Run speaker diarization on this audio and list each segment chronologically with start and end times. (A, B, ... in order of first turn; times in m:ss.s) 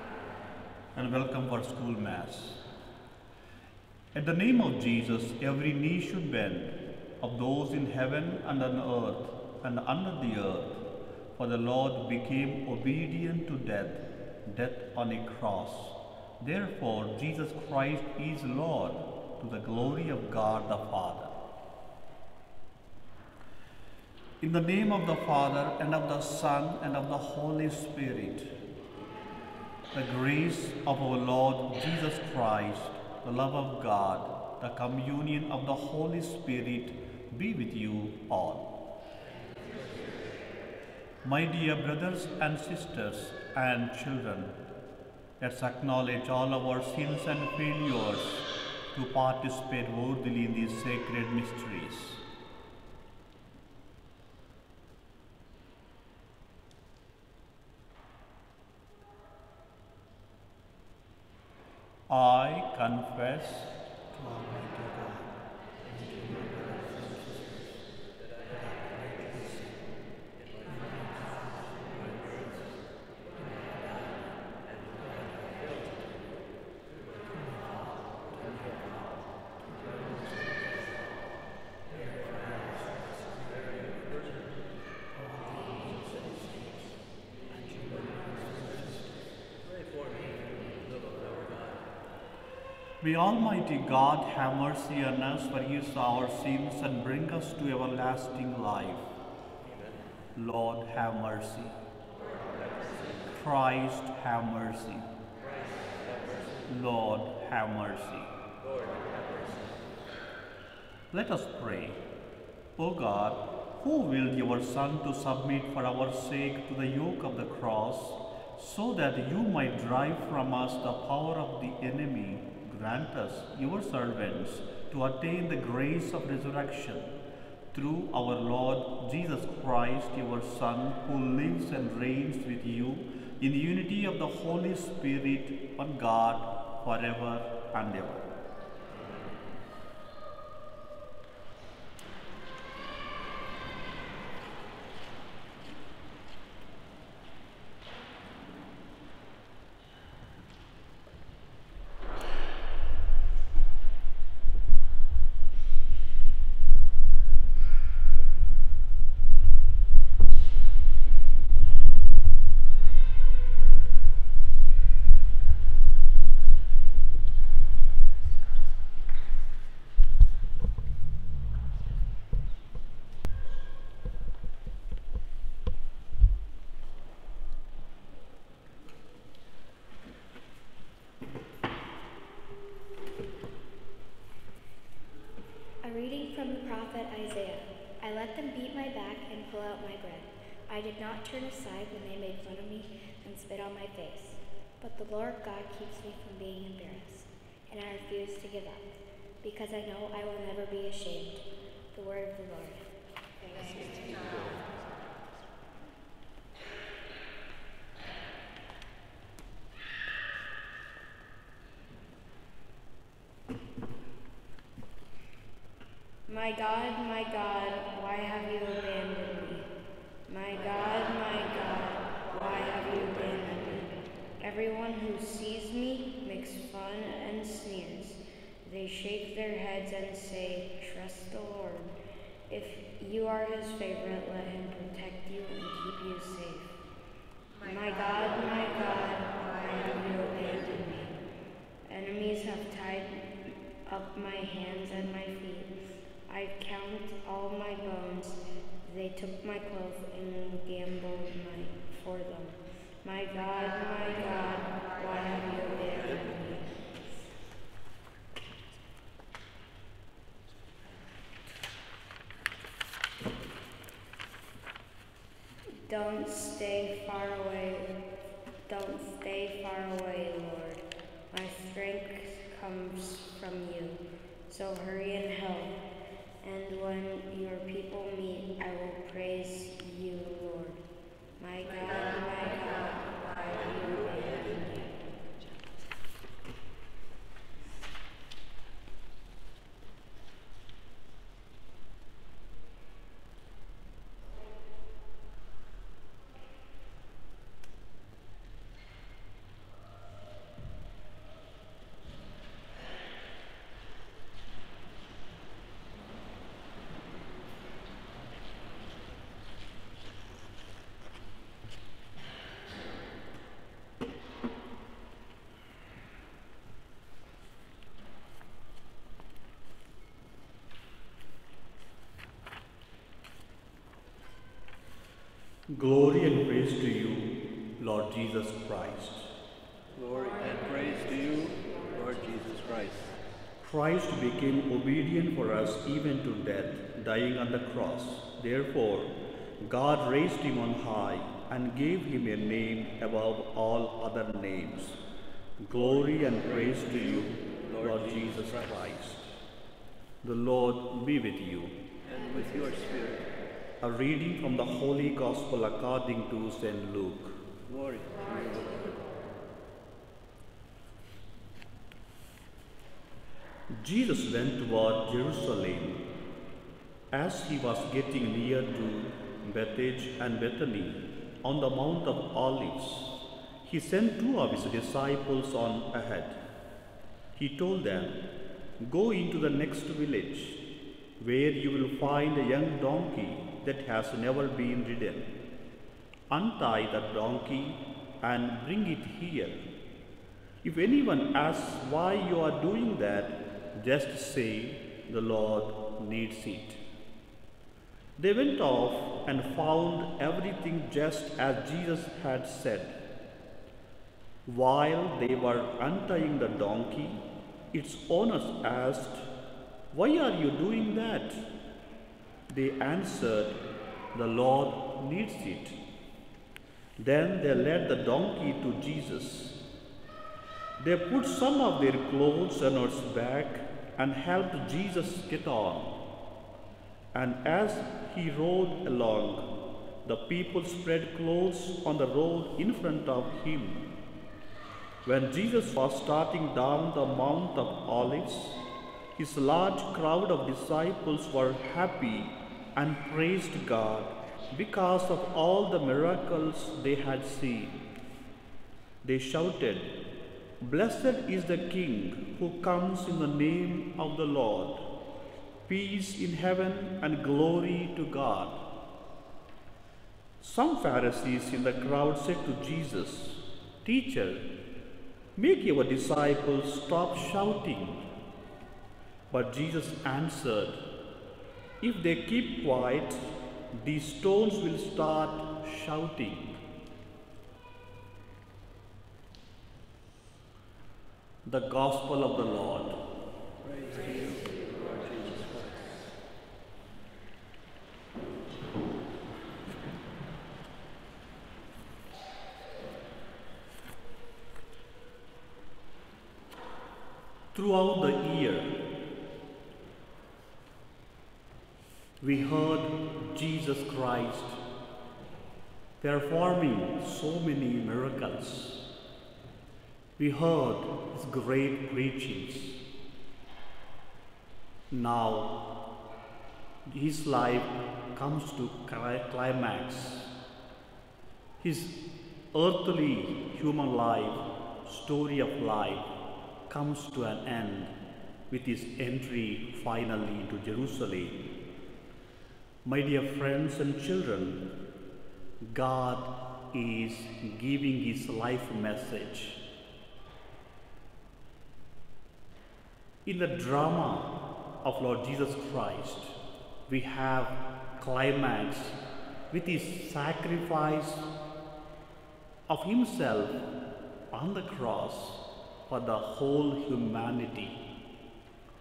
0:00.9-0:02.6 A
0:04.1-0:10.8 A
0:11.4-0:21.3 A
0:24.4-0:28.5 A
0:29.9-0:38.8 A
0:41.2-0:44.6 A
0:45.4-0:52.2 A
1:02.1-1:05.2 A
1:06.0-1:07.4 B
1:08.2-1:09.6 B
1:10.3-1:12.8 B
1:14.6-1:16.1 B
1:16.9-1:19.2 B
1:19.8-1:20.8 B
1:21.9-1:24.5 B
1:25.2-1:26.9 B
1:27.5-1:31.9 B
1:33.0-1:39.1 A
1:39.6-1:40.1 B
1:40.3-1:41.8 A
1:42.5-1:43.3 B
1:43.3-1:45.1 A
1:45.4-1:46.8 B
1:46.7-1:48.3 A
1:48.6-1:49.9 B
1:51.1-1:52.0 A
1:52.8-2:07.1 A
2:07.7-2:18.3 A
3:05.8-3:22.9 C
3:23.6-3:24.7 B
3:36.3-3:39.7 C
3:40.3-3:51.9 C
3:52.5-3:56.8 C
3:57.6-4:01.2 C
4:01.8-4:03.3 C
4:03.8-4:05.7 C
4:06.3-4:16.7 C
4:25.8-4:27.9 C
4:28.6-4:35.8 C
4:36.4-4:40.8 C
4:41.4-4:44.9 C
5:25.7-5:29.3 A
5:29.9-5:33.1 B
5:33.6-5:45.0 A
5:45.6-5:49.3 A
5:45.8-5:48.9 B
5:50.2-5:51.8 A
5:52.0-5:53.3 B
5:53.8-5:57.4 A
5:57.6-5:59.1 B
6:03.7-6:06.1 A
6:07.1-6:16.4 A
6:17.3-6:25.4 A
6:26.3-6:29.7 A
6:30.6-6:36.8 A
6:38.2-6:43.0 A
6:44.4-6:49.3 A
6:49.9-6:51.5 A
6:52.5-6:55.8 A
6:57.0-6:59.6 A
7:00.8-7:06.0 A
7:07.1-7:13.9 A
7:15.0-7:18.6 A
7:19.2-7:27.8 A
7:29.0-7:30.0 A
7:30.6-7:34.9 A
7:35.7-7:38.7 A
7:40.4-7:44.5 A
7:45.4-7:48.1 A
7:49.3-7:50.9 A
7:51.8-7:56.6 A
8:01.4-8:03.0 A
8:03.6-8:06.0 B
8:17.5-8:18.9 A
8:22.2-8:24.6 A
8:26.0-8:28.9 A
8:30.2-8:32.8 A
8:34.9-8:35.8 A
8:36.8-8:40.3 A
8:41.6-8:46.1 A
8:46.7-8:47.9 A
8:48.5-8:51.5 A
8:52.8-8:54.8 A
8:55.6-8:59.6 A
9:03.2-9:09.0 A
9:09.5-9:11.3 A
9:12.7-9:13.7 A
9:14.3-9:17.8 A